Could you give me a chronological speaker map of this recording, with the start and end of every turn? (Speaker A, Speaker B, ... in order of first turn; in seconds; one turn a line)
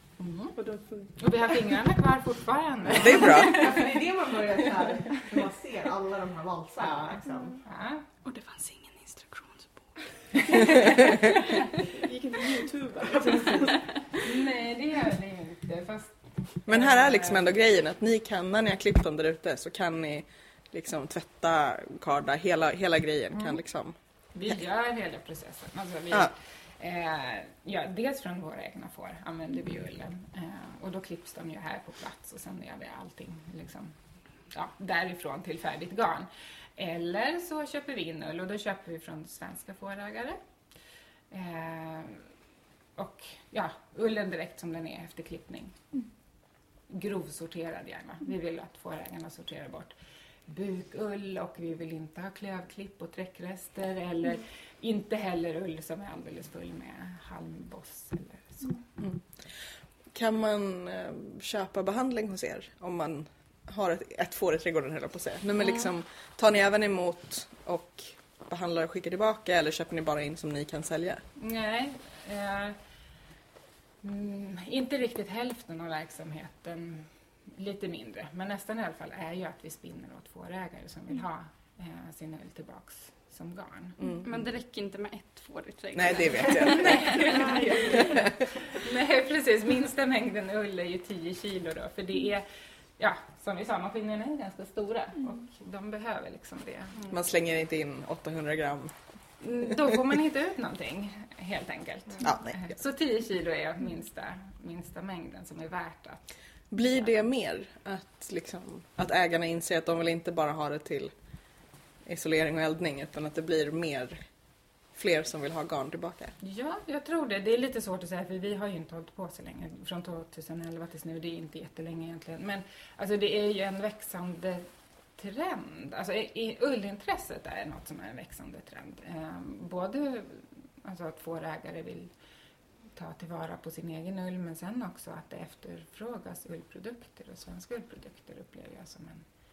Speaker A: 0.2-0.5
Speaker B: 0.6-1.1
Speaker A: 1.2-3.9
Speaker C: 2.9-3.7
Speaker B: 2.9-7.6
Speaker A: 7.6-8.0
Speaker D: 8.2-9.8
Speaker A: 10.5-11.0
Speaker E: 11.9-13.7
Speaker B: 13.1-13.9
Speaker A: 14.2-17.5
Speaker C: 16.7-23.9
Speaker A: 23.3-23.6
Speaker A: 24.3-34.0
Speaker A: 34.5-40.4
Speaker A: 41.3-42.3
Speaker A: 43.0-45.8
Speaker A: 46.9-49.9
Speaker A: 50.5-58.8
Speaker C: 59.0-59.5
Speaker C: 60.1-71.2
Speaker A: 71.3-72.8
Speaker A: 74.0-84.0
Speaker C: 84.0-84.3
Speaker D: 84.2-87.7
Speaker C: 85.9-87.3
Speaker A: 86.6-92.4
Speaker E: 87.2-88.1
Speaker A: 93.0-97.1
Speaker C: 97.1-98.9
Speaker A: 99.4-106.3
Speaker C: 102.2-102.7
Speaker C: 106.7-111.1
Speaker C: 112.0-116.3
Speaker A: 116.4-132.1
Speaker A: 132.9-139.2